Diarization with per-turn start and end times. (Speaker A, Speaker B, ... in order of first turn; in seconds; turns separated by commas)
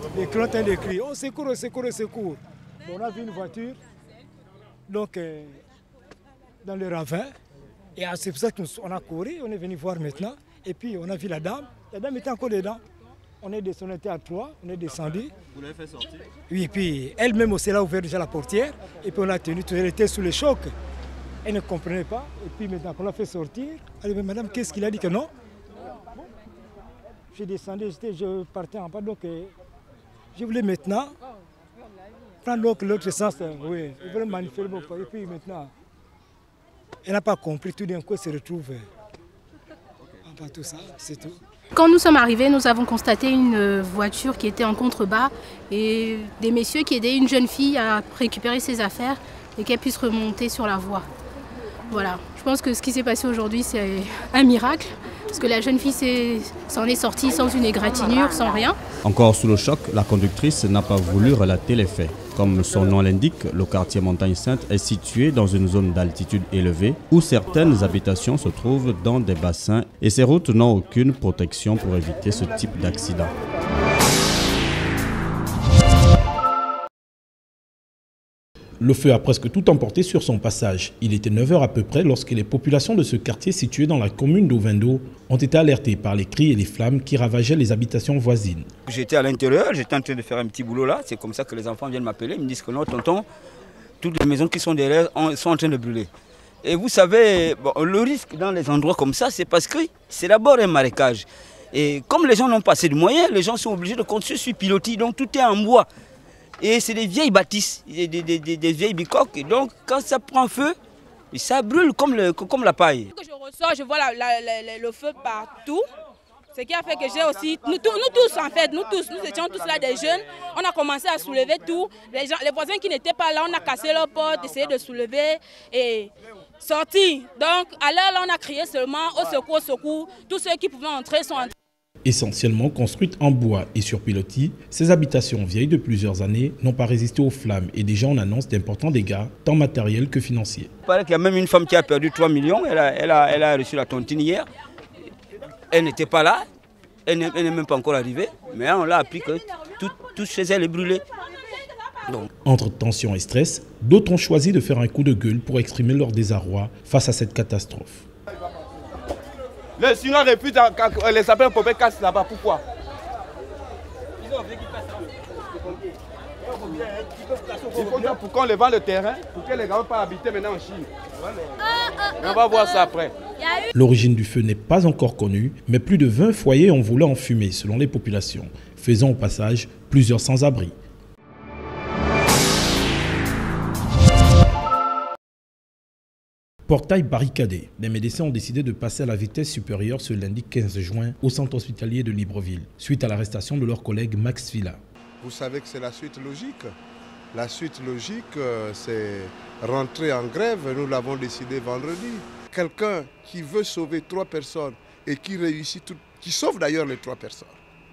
Speaker A: 0.1-3.8, Speaker A: 4.9-5.6, Speaker A: 6.6-7.3, Speaker A: 8.0-12.8, Speaker A: 13.4-15.3, Speaker A: 16.5-20.7, Speaker A: 21.4-25.3, Speaker A: 27.3-29.5, Speaker A: 30.3-31.1, Speaker A: 32.4-35.7, Speaker A: 37.0-38.9, Speaker A: 40.2-41.4, Speaker B: 41.7-51.1, Speaker B: 51.9-58.8, Speaker C: 59.0-73.3, Speaker D: 78.8-88.7, Speaker E: 88.8-93.3, Speaker E: 94.0-96.1, Speaker E: 96.6-105.9, Speaker E: 106.6-110.8, Speaker E: 111.3-113.1, Speaker F: 113.1-115.8, Speaker F: 116.5-131.5, Speaker D: 132.0-140.7, Speaker E: 140.8-144.5, Speaker E: 145.7-146.4, Speaker E: 147.1-151.0, Speaker D: 152.4-158.1, Speaker G: 159.8-162.6, Speaker G: 167.7-170.9, Speaker G: 172.2-173.1, Speaker D: 173.7-180.7, Speaker D: 186.7-194.8, Speaker H: 195.2-196.7, Speaker H: 197.3-207.6